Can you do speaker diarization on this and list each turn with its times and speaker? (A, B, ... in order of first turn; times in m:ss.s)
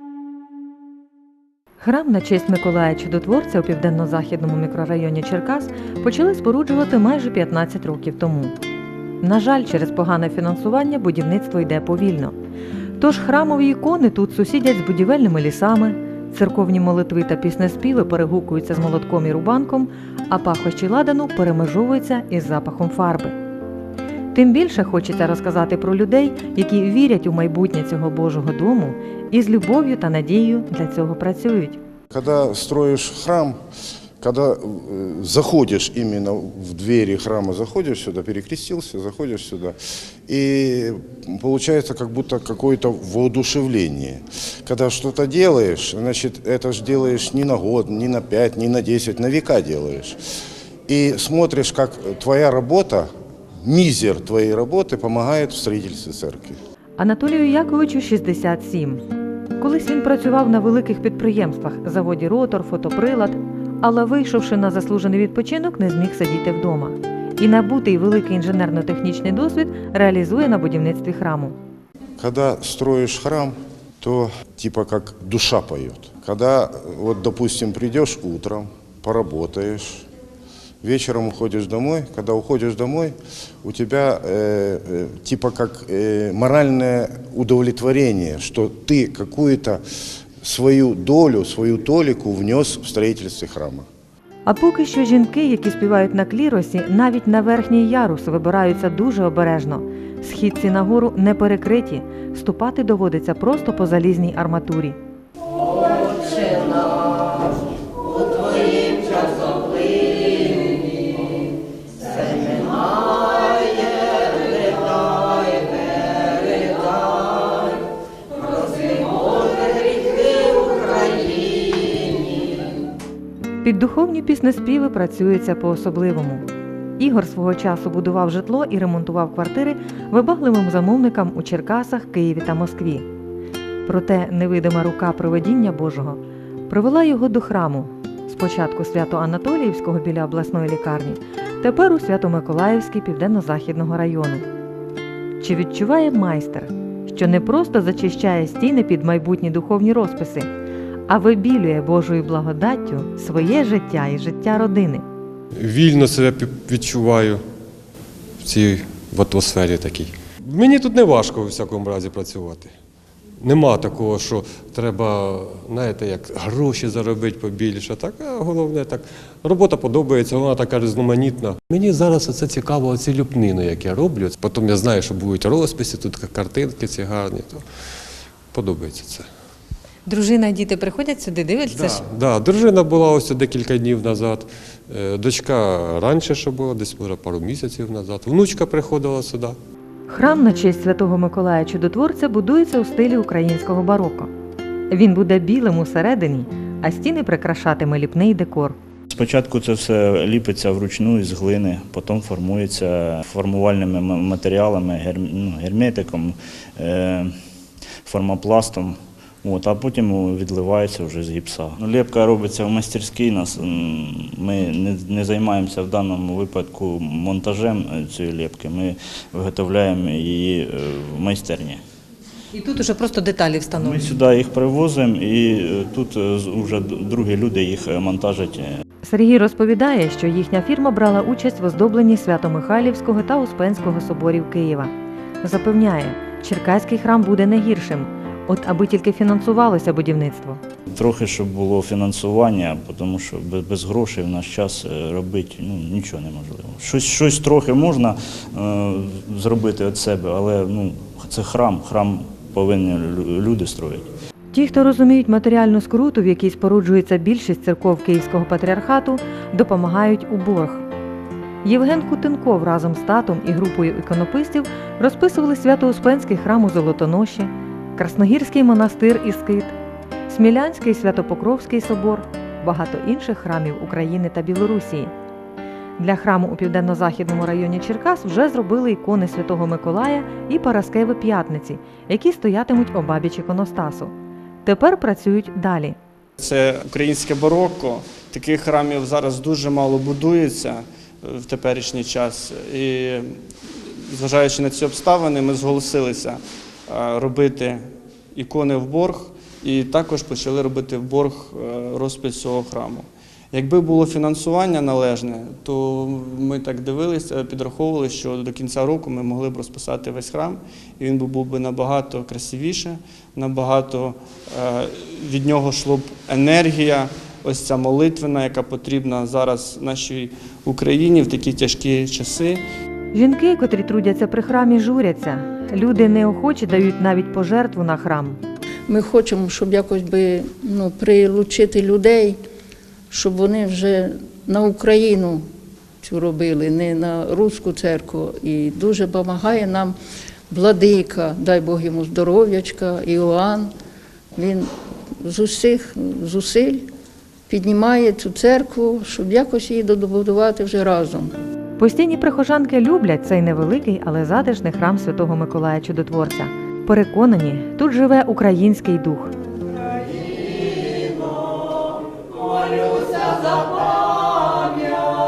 0:01.8-0:08.6 A
0:09.2-0:12.3 A
0:13.0-0:23.3 A
0:24.3-0:31.8 A
0:32.1-0:33.6 B
0:34.2-0:39.8 B
0:40.3-0:50.2 B
0:50.9-0:53.1 B
0:53.6-0:56.6 B
0:57.0-0:59.0 A
0:59.6-1:11.6 A
1:12.2-1:20.0 B
1:20.8-1:29.8 B
1:30.4-1:33.8 B
1:34.4-1:45.0 A
2:03.6-2:06.4 A
2:07.0-2:13.0 A
2:13.8-2:24.4 A
2:25.4-2:30.5 A
2:31.1-2:35.0 A
2:35.6-2:37.4 C
2:38.4-2:42.7 C
2:43.4-2:57.6 C
2:58.5-2:59.3 C
3:00.0-3:02.0 A
3:01.7-3:09.6 C
3:10.1-3:14.3 A
3:14.9-3:18.8 A
3:19.1-3:27.3 D
3:28.0-3:41.8 D
3:42.5-3:44.1 A
3:43.8-3:48.8 D
3:49.0-4:00.6 A
4:00.9-4:14.1 D
4:14.5-4:20.8 A
4:21.6-4:29.7 A
4:30.3-4:35.1 A
4:36.0-4:44.1 A
4:44.6-4:46.0 A
4:46.4-5:22.6 E
5:23.1-5:28.4 A
5:28.9-5:32.4 F
5:33.1-5:35.4 F
5:36.0-5:40.0 F
5:40.5-5:43.7 F
5:44.3-5:44.7 F
5:45.2-5:46.9 F
5:47.5-5:51.3 F
5:51.8-5:59.3 A